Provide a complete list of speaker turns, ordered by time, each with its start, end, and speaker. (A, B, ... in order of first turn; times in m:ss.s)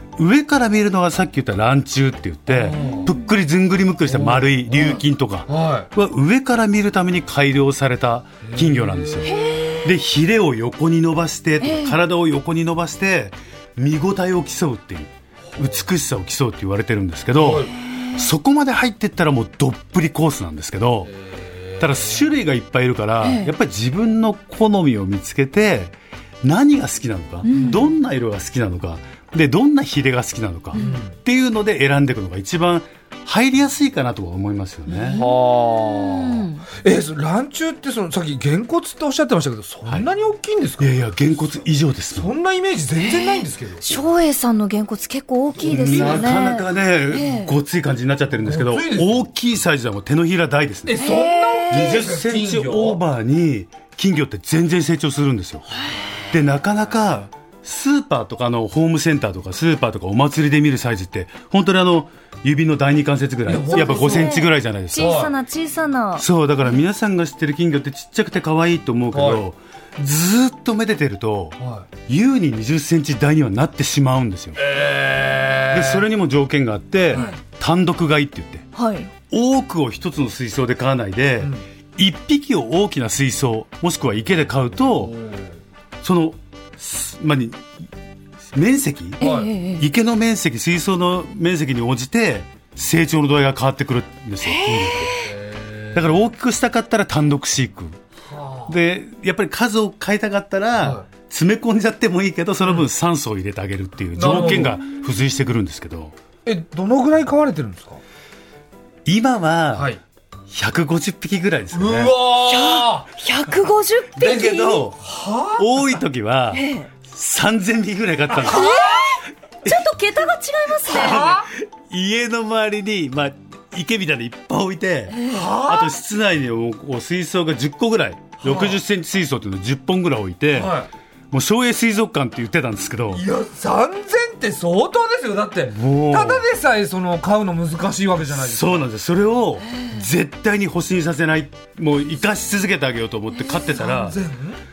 0:00.2-0:21.1 A
0:02.5-0:03.1 B
0:02.7-0:03.2 C
0:04.0-0:05.9 B
0:08.4-0:09.7 B
0:09.2-0:09.9 C
0:11.6-0:12.0 C
0:15.5-0:15.8 B
0:17.4-0:17.8 B
0:17.7-0:18.3 C
0:21.1-0:21.8 B
0:21.8-0:35.2 A
0:23.2-0:23.5 C
0:27.4-0:27.9 C
0:30.7-0:31.1 B
0:34.9-0:36.6 C
0:35.1-0:41.0 B
0:40.8-0:42.3 A
0:42.1-0:43.9 B
0:43.1-0:47.5 C
0:45.6-0:46.5 B
0:45.7-0:51.0 A
0:48.4-0:49.2 B
0:50.8-0:53.0 B
0:51.0-0:52.0 C
0:51.7-0:55.7 A
0:56.3-1:05.3 A
1:03.4-1:04.4 B
1:03.7-1:06.2 C
1:05.0-1:05.3 B
1:06.2-1:14.6 A
1:09.1-1:09.4 B
1:11.6-1:11.9 B
1:14.6-1:16.0 B
1:15.7-1:18.7 A
1:17.1-1:17.4 B
1:18.8-1:19.1 C
1:19.3-1:25.1 A
1:25.0-1:25.6 B
1:26.0-1:27.7 A
1:28.5-1:35.2 A
1:29.2-1:29.5 B
1:29.2-1:29.8 C
1:34.4-1:35.3 C
1:35.1-1:36.0 B
1:35.9-1:38.0 A
1:38.2-1:38.8 B
1:38.7-1:46.1 A
1:40.8-1:41.0 B
1:44.2-1:44.8 B
1:44.3-1:44.8 C
1:46.4-1:48.0 B
1:49.0-1:49.9 A
1:49.7-1:50.0 B
1:50.5-1:52.1 A
1:51.7-1:53.1 B
1:52.5-1:54.8 C
1:54.1-1:55.0 A
1:54.7-1:55.6 B
1:55.6-1:58.8 A
1:56.5-1:56.9 C
1:58.4-1:59.2 B
1:58.4-2:01.3 C
2:00.8-2:10.8 A
2:00.9-2:01.5 B
2:05.1-2:05.5 C
2:05.3-2:05.9 B
2:08.4-2:08.8 B
2:10.5-2:10.9 B
2:11.3-2:13.2 A
2:13.1-2:18.9 B
2:15.7-2:16.5 A
2:18.3-2:24.2 A
2:19.7-2:20.0 C
2:23.8-2:24.6 B